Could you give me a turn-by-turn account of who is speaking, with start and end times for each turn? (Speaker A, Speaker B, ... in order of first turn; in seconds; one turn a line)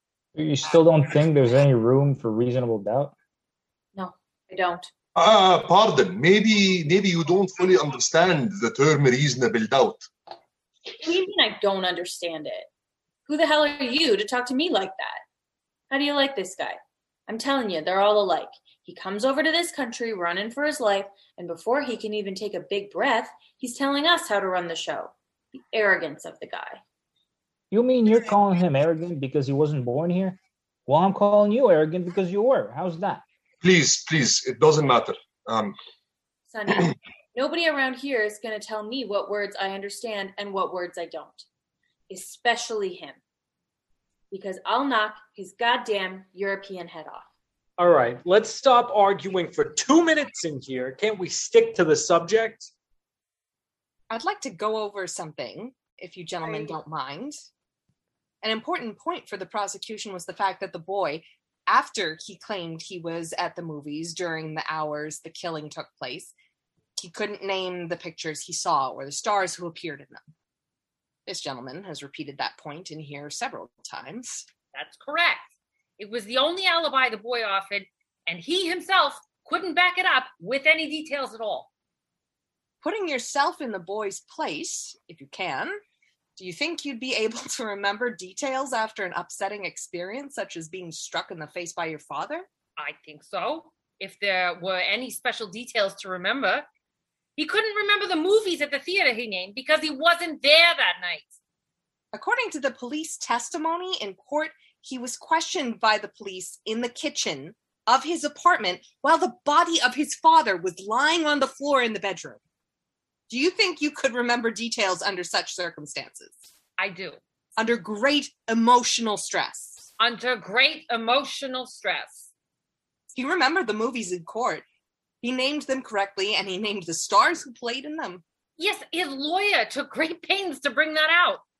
Speaker A: 0.3-3.1
Speaker B: 3.9-4.9
Speaker C: 5.2-10.1
Speaker B: 11.0-12.7
Speaker B: 13.3-15.2
Speaker B: 15.9-26.8
Speaker A: 27.7-33.2
Speaker C: 33.6-35.7
Speaker B: 36.5-41.5
Speaker B: 42.1-43.2
Speaker B: 44.3-47.3
Speaker D: 47.8-52.7
Speaker E: 54.1-57.4
Speaker F: 56.4-56.8
Speaker E: 58.4-66.3
Speaker E: 67.0-70.2
Speaker E: 71.2-74.5
Speaker F: 74.7-81.7
Speaker E: 82.8-85.8
Speaker E: 86.4-92.5
Speaker F: 92.8-96.7
Speaker F: 97.4-101.4
Speaker E: 102.1-112.4
Speaker E: 113.3-116.4
Speaker F: 116.8-117.2
Speaker E: 117.6-119.9
Speaker F: 120.0-122.3
Speaker E: 123.1-124.6
Speaker E: 125.2-128.2
Speaker F: 128.6-131.4